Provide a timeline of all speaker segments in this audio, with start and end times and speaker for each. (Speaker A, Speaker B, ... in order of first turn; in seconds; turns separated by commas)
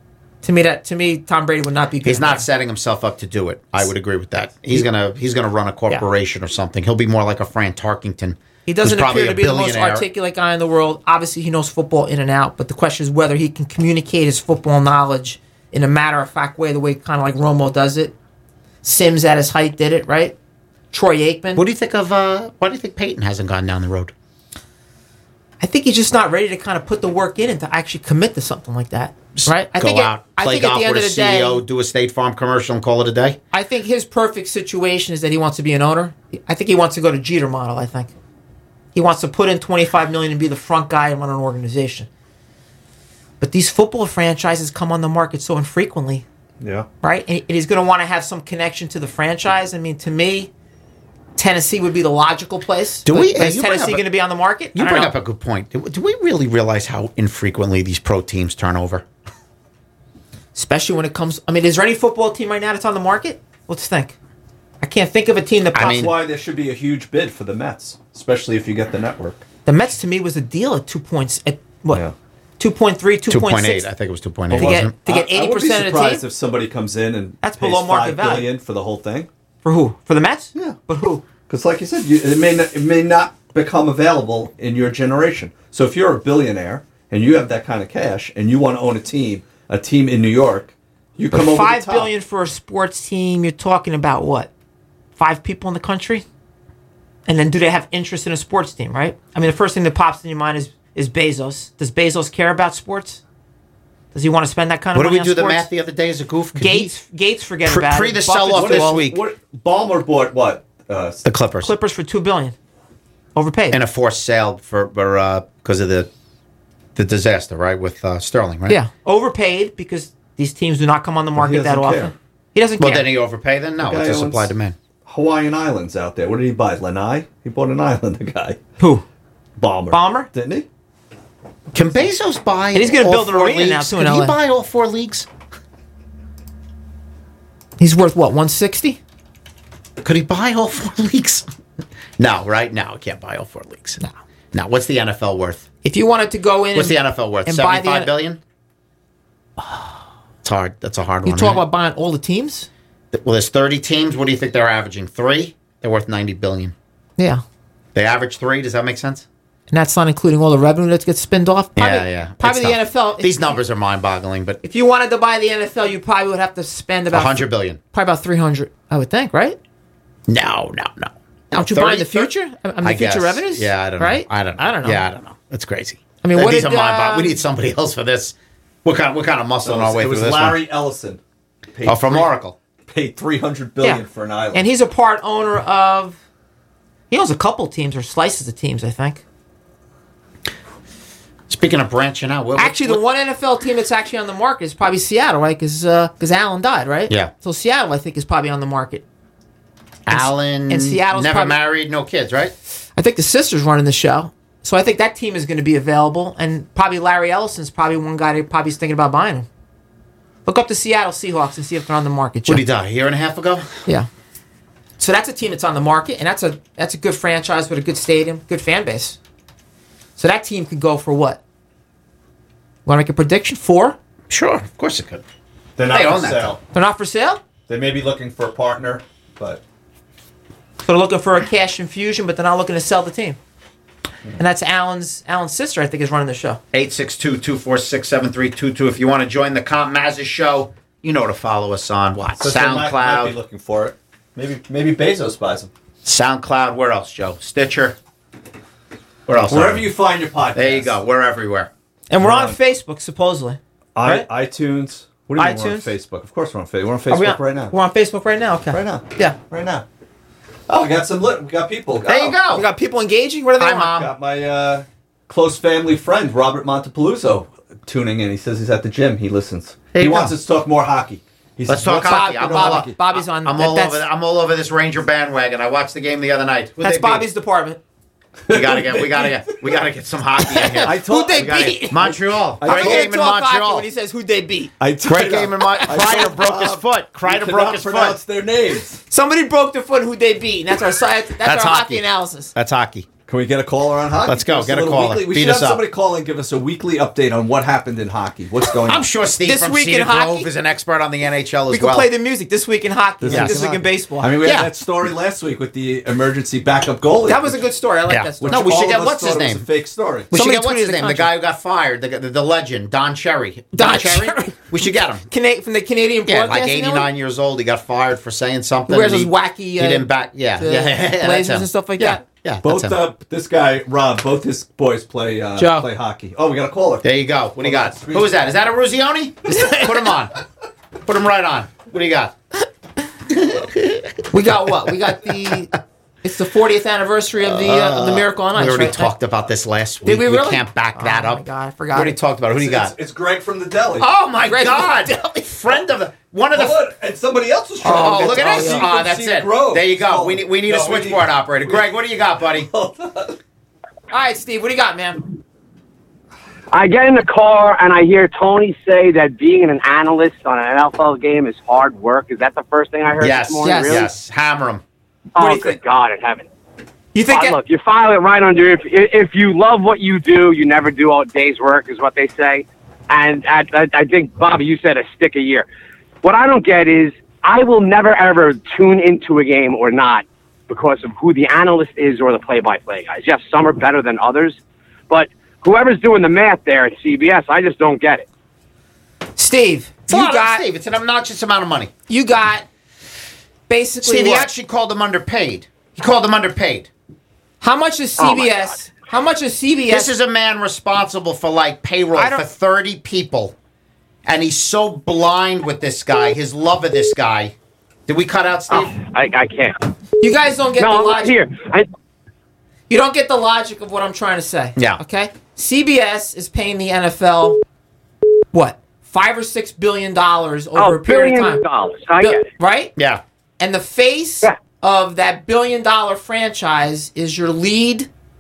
Speaker A: 0.4-2.5, Speaker B: 2.0-10.1, Speaker A: 8.7-18.1, Speaker A: 18.8-20.4, Speaker A: 20.9-21.6, Speaker B: 21.6-24.1, Speaker A: 25.6-31.6, Speaker B: 29.4-33.4, Speaker A: 33.5-38.1, Speaker A: 39.0-42.1, Speaker A: 43.4-46.2, Speaker C: 46.6-46.9, Speaker A: 47.0-50.5, Speaker A: 51.4-55.1, Speaker B: 53.0-54.0, Speaker B: 54.7-59.0, Speaker A: 60.5-64.1, Speaker A: 64.8-66.1, Speaker B: 65.8-66.1, Speaker C: 65.8-69.5, Speaker A: 69.7-72.0, Speaker A: 72.6-73.9, Speaker B: 73.3-74.9, Speaker A: 74.5-76.2, Speaker C: 74.5-79.3, Speaker A: 77.4-78.5, Speaker A: 79.6-81.2, Speaker C: 81.5-92.1, Speaker A: 91.3-94.5, Speaker A: 95.2-96.2, Speaker A: 97.3-103.2, Speaker A: 104.1-105.7, Speaker B: 105.0-106.9, Speaker A: 106.6-109.0, Speaker B: 107.6-109.2, Speaker C: 108.5-111.2, Speaker B: 111.2-111.7, Speaker A: 111.6-112.5, Speaker A: 113.3-113.8, Speaker B: 113.7-116.1, Speaker B: 117.0-118.8, Speaker A: 118.7-123.1, Speaker C: 121.4-122.1, Speaker B: 122.8-124.8, Speaker C: 123.8-124.5, Speaker C: 125.1-128.6, Speaker A: 128.8-129.1, Speaker C: 129.6-130.7, Speaker A: 129.9-130.3, Speaker B: 131.7-135.3, Speaker A: 132.7-134.4, Speaker A: 137.8-139.0, Speaker B: 140.0-141.5, Speaker B: 142.2-144.0, Speaker B: 144.5-145.7, Speaker A: 145.8-148.1, Speaker B: 146.7-148.4, Speaker B: 150.4-151.6, Speaker A: 151.2-152.7, Speaker B: 153.1-156.7, Speaker B: 157.9-159.3, Speaker A: 159.7-163.6, Speaker B: 161.8-164.6, Speaker A: 164.6-169.6, Speaker B: 167.1-167.8, Speaker B: 170.3-172.3, Speaker A: 171.5-175.1, Speaker B: 172.8-180.7, Speaker A: 176.2-177.4, Speaker C: 179.6-181.2, Speaker C: 181.7-182.3, Speaker B: 181.8-182.6, Speaker C: 182.9-184.7, Speaker A: 183.8-186.2, Speaker A: 187.1-189.2, Speaker B: 191.5-193.0, Speaker A: 192.6-199.0, Speaker B: 200.1-202.5, Speaker A: 200.1-201.6, Speaker A: 203.0-209.5, Speaker A: 210.5-212.6, Speaker B: 212.5-213.8, Speaker A: 215.0-219.2, Speaker A: 220.2-221.4, Speaker A: 222.9-224.0, Speaker B: 224.3-225.2, Speaker C: 225.8-226.6, Speaker B: 225.9-226.6, Speaker A: 226.7-227.4, Speaker C: 227.7-229.6, Speaker A: 230.8-233.4, Speaker A: 234.4-236.6, Speaker B: 236.7-243.4, Speaker C: 242.4-245.7, Speaker B: 246.0-248.0, Speaker B: 249.3-249.9, Speaker C: 249.5-251.0, Speaker B: 250.6-251.7, Speaker A: 252.1-254.3, Speaker C: 252.2-252.6, Speaker C: 253.9-257.7, Speaker A: 255.4-255.9, Speaker A: 257.1-259.4, Speaker C: 258.7-259.8, Speaker C: 260.7-262.4, Speaker B: 262.1-262.7, Speaker A: 262.4-264.0, Speaker B: 263.6-264.1, Speaker C: 264.0-272.9, Speaker B: 269.9-270.3, Speaker B: 271.7-277.3, Speaker A: 272.0-274.0, Speaker A: 276.8-277.8, Speaker C: 278.5-279.6, Speaker B: 278.5-283.9, Speaker A: 280.6-282.1, Speaker C: 280.8-283.1, Speaker A: 282.6-284.7, Speaker C: 284.8-289.0, Speaker B: 285.1-288.2, Speaker A: 289.1-292.5, Speaker B: 291.4-293.1, Speaker C: 293.3-299.1, Speaker B: 294.3-295.8, Speaker B: 298.9-302.1, Speaker A: 299.4-300.5, Speaker A: 301.7-304.3, Speaker C: 303.2-307.6, Speaker B: 303.3-303.6, Speaker B: 304.4-304.7, Speaker A: 307.3-308.9, Speaker B: 308.1-309.6, Speaker C: 308.4-310.3, Speaker B: 310.3-315.3, Speaker A: 310.3-311.3, Speaker A: 313.7-317.1, Speaker B: 316.3-323.0, Speaker A: 318.9-322.2, Speaker C: 322.6-328.3, Speaker A: 325.6-325.9, Speaker B: 327.0-330.4, Speaker A: 329.5-329.9, Speaker B: 331.1-332.4, Speaker B: 333.3-334.1, Speaker A: 334.3-335.7, Speaker A: 336.2-339.1, Speaker B: 337.4-342.9, Speaker A: 340.1-342.1, Speaker C: 342.6-344.1, Speaker B: 344.0-346.8, Speaker A: 344.4-345.4, Speaker C: 346.5-351.9, Speaker A: 347.8-348.9, Speaker B: 347.8-352.7, Speaker C: 352.6-353.4, Speaker A: 354.1-355.3, Speaker D: 356.7-364.1, Speaker B: 363.2-364.8, Speaker A: 363.6-364.1, Speaker D: 365.4-366.5, Speaker A: 365.4-365.8, Speaker A: 367.1-367.6, Speaker D: 367.3-375.6, Speaker D: 376.2-384.6, Speaker D: 385.1-388.3, Speaker A: 389.4-390.6, Speaker B: 390.1-391.9, Speaker A: 392.1-392.6, Speaker A: 393.7-394.5, Speaker B: 394.0-396.9, Speaker A: 397.6-400.1, Speaker B: 399.9-403.6, Speaker A: 402.1-402.4, Speaker B: 404.3-407.6, Speaker B: 408.1-409.0, Speaker D: 408.7-409.8, Speaker A: 410.2-411.4, Speaker D: 410.8-411.9, Speaker A: 412.9-417.6, Speaker A: 418.5-421.6, Speaker D: 420.8-422.5, Speaker A: 422.2-422.9, Speaker B: 423.0-423.2, Speaker A: 423.6-428.1